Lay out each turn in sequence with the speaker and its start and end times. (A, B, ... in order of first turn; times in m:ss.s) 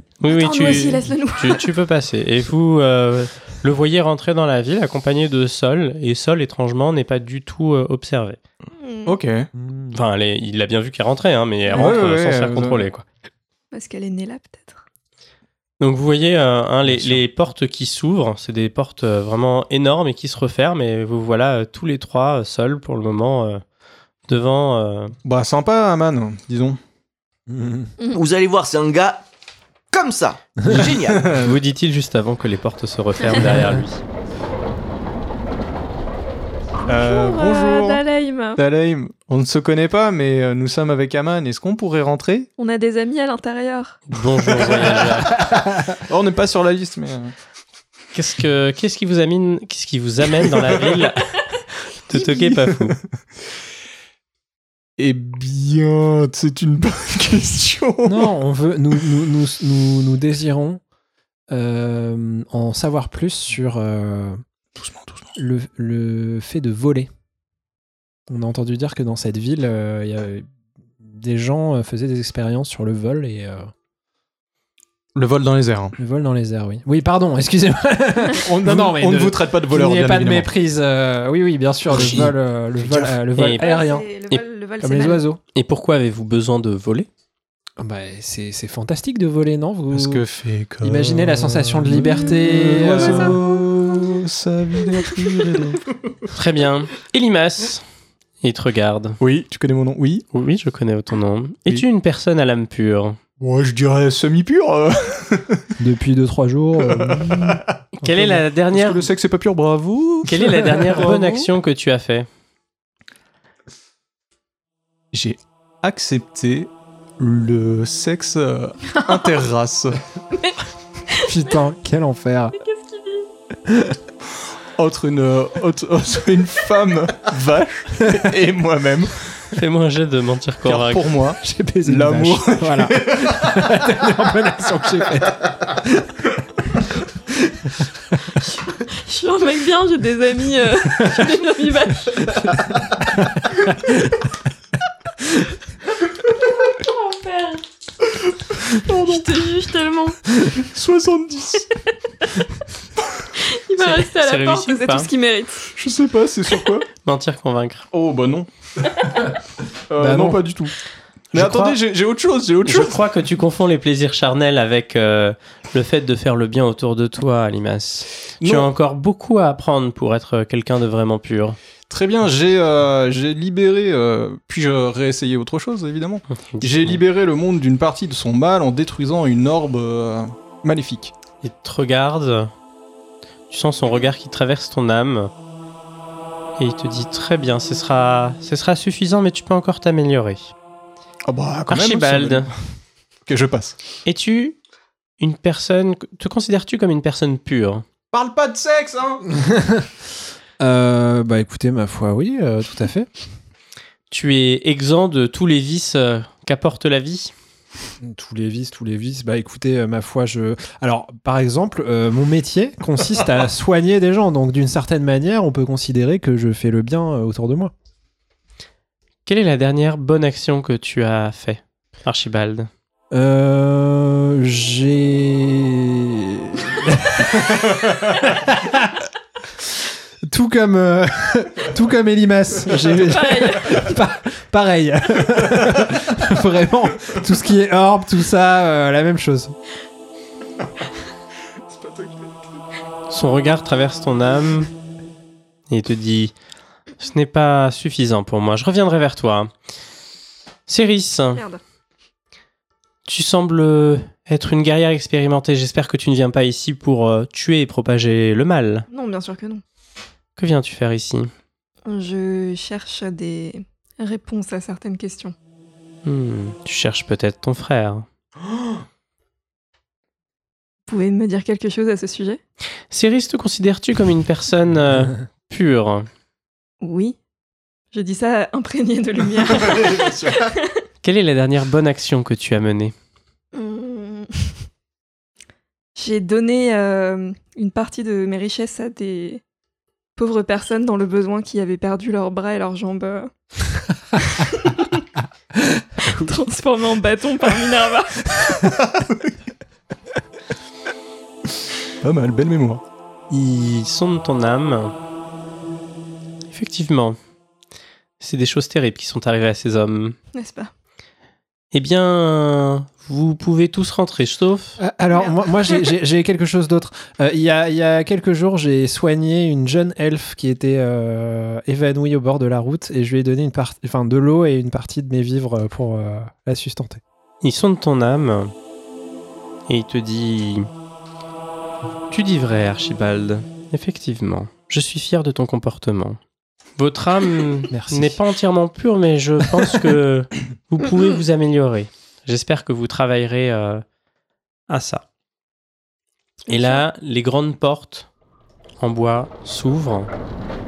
0:00.2-0:08.4 A
0:00.3-0:01.7 B
0:08.8-0:09.2 B
0:09.0-0:09.5 C
0:09.6-0:09.9 D
0:09.9-0:13.0 A
0:11.7-0:12.8 C
0:13.7-0:14.8 B
0:15.8-0:23.6 A
0:16.9-0:17.2 C
0:24.3-0:25.2 A
0:25.2-0:26.8 C
0:27.5-0:27.9 D
0:28.1-0:29.2 E
0:29.9-0:31.4 E
0:30.7-0:31.6 C
0:31.4-0:34.0 A
0:36.9-0:38.6 B
0:36.9-0:38.0 C
0:38.6-0:42.5 C
0:42.6-0:44.0 B
0:44.1-0:45.5 A
0:44.7-0:47.3 C
0:45.5-0:45.9 D
0:48.1-0:51.2 A
0:52.1-0:53.0 A
0:52.2-0:53.0 C
0:55.0-0:58.4 C
0:58.0-1:00.8 D
1:01.5-1:04.4 D
1:04.8-1:05.3 C
1:05.4-1:07.1 D
1:08.3-1:10.5 D
1:11.0-1:13.7 D
1:15.2-1:16.0 C
1:16.0-1:24.1 D
1:18.3-1:20.5 C
1:21.9-1:23.2 C
1:23.4-1:23.7 A
1:23.5-1:25.2 B
1:24.8-1:25.4 D
1:25.5-1:27.1 A
1:27.8-1:30.2 D
1:29.9-1:35.8 C
1:30.8-1:33.4 D
1:32.9-1:33.4 B
1:36.3-1:37.8 A
1:38.4-1:39.2 A
1:39.2-1:40.3 C
1:40.3-1:43.2 A
1:43.4-1:45.7 C
1:45.8-1:48.4 D
1:46.8-1:47.7 C
1:48.0-1:49.1 A
1:48.7-1:51.5 C
1:50.2-1:52.3 A
1:55.1-2:00.0 C
2:01.2-2:02.6 D
2:02.6-2:03.3 B
2:03.7-2:04.0 D
2:04.4-2:09.5 C
2:09.5-2:11.1 A
2:10.6-2:13.9 C
2:11.4-2:16.1 D
2:18.5-2:22.7 B
2:23.2-2:24.2 D
2:26.6-2:27.6 B
2:28.3-2:29.4 C
2:28.9-2:30.3 B
2:30.6-2:31.7 C
2:33.4-2:35.7 B
2:33.8-2:35.1 A
2:35.6-2:36.9 C
2:37.0-2:37.9 A
2:37.9-2:39.1 C
2:39.9-2:40.8 C
2:40.0-2:40.5 D
2:41.3-2:43.0 C
2:41.4-2:41.7 A
2:42.6-2:51.6 A
2:48.4-2:48.7 C
2:51.9-3:01.1 C
2:56.3-2:57.0 A
3:01.4-3:02.5 A
3:03.5-3:05.3 A
3:06.6-3:10.5 A
3:11.3-3:12.5 C
3:11.7-3:12.5 A
3:13.3-3:13.8 C
3:14.1-3:14.6 A
3:15.2-3:17.8 A
3:18.1-3:19.3 C
3:19.4-3:19.9 D
3:20.6-3:23.1 D
3:24.1-3:27.3 A
3:28.0-3:37.7 D
3:39.3-3:42.7 A
3:43.1-3:49.0 D
3:50.3-3:59.6 D
3:53.0-3:53.9 B
3:55.4-3:55.8 C
4:01.8-4:02.1 C
4:03.1-4:04.7 A
4:05.7-4:06.3 A
4:07.0-4:09.5 A
4:10.7-4:11.4 A
4:11.4-4:11.6 B
4:13.1-4:18.9 A
4:18.9-4:19.6 B
4:20.4-4:21.3 A
4:21.9-4:25.4 B
4:26.0-4:28.1 A
4:30.9-4:32.4 B
4:32.9-4:36.1 A
4:36.8-4:37.2 B
4:37.9-4:40.8 B
4:39.4-4:40.5 C
4:41.0-4:42.9 A
4:43.5-4:44.6 B
4:46.0-4:49.4 B
4:50.2-4:53.3 B
4:54.2-4:55.0 B
4:55.6-4:56.3 D
4:56.1-4:58.7 B
4:58.6-4:59.4 C
5:02.0-5:02.8 C
5:03.3-5:04.9 A
5:06.5-5:07.2 A
5:08.2-5:10.2 A
5:10.3-5:10.7 B
5:11.7-5:14.8 A
5:14.8-5:27.0 D
5:15.1-5:15.8 B
5:27.4-5:28.5 A
5:29.7-5:30.7 A
5:32.1-5:36.2 A
5:36.8-5:43.8 A
5:37.7-5:38.2 D
5:44.7-5:45.0 A
5:46.5-5:48.1 A
5:46.5-5:46.8 B
5:48.8-5:50.1 A